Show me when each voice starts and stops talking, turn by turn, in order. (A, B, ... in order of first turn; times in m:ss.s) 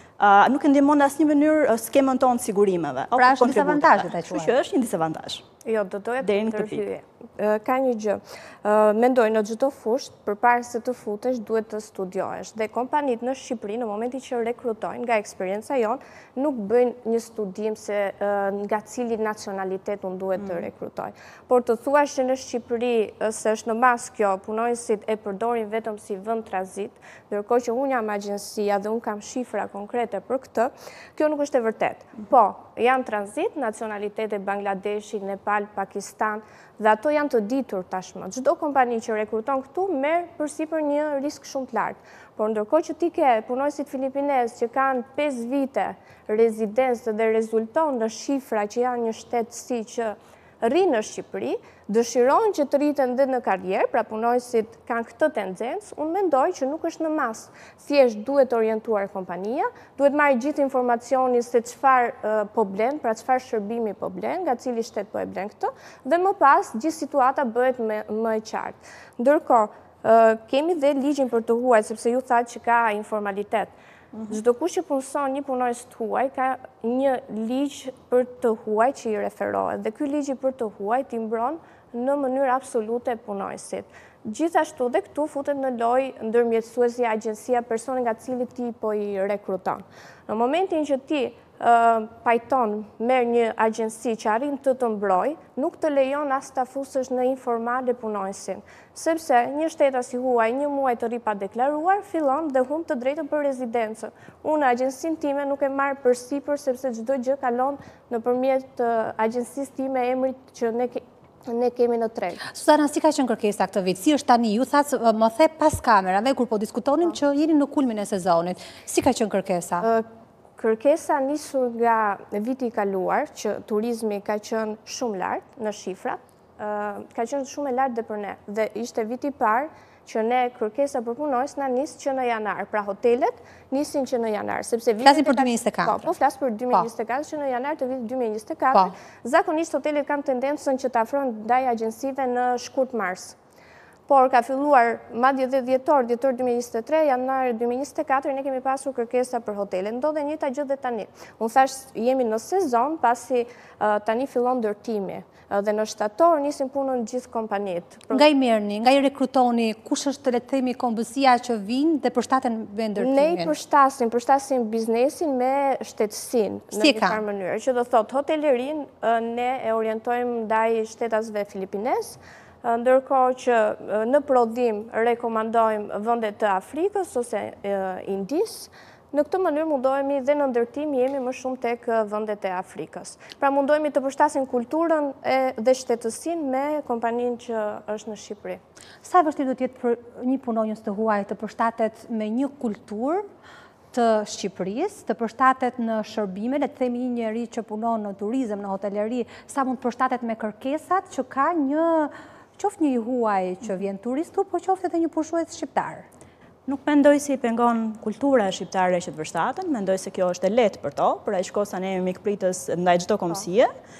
0:00.2-0:05.4 A
0:03.2-0:04.5 B
0:05.6-1:13.7 C
0:06.2-0:06.8 A
0:20.4-0:20.6 A
1:14.3-1:52.4 C
1:52.4-1:59.9 B
2:00.6-2:23.4 C
2:15.0-2:16.1 B
2:24.1-2:38.3 C
2:38.1-2:43.5 B
2:43.0-3:08.6 C
2:46.7-2:47.2 B
3:09.0-3:13.2 B
3:13.9-3:26.0 B
3:26.7-3:33.7 A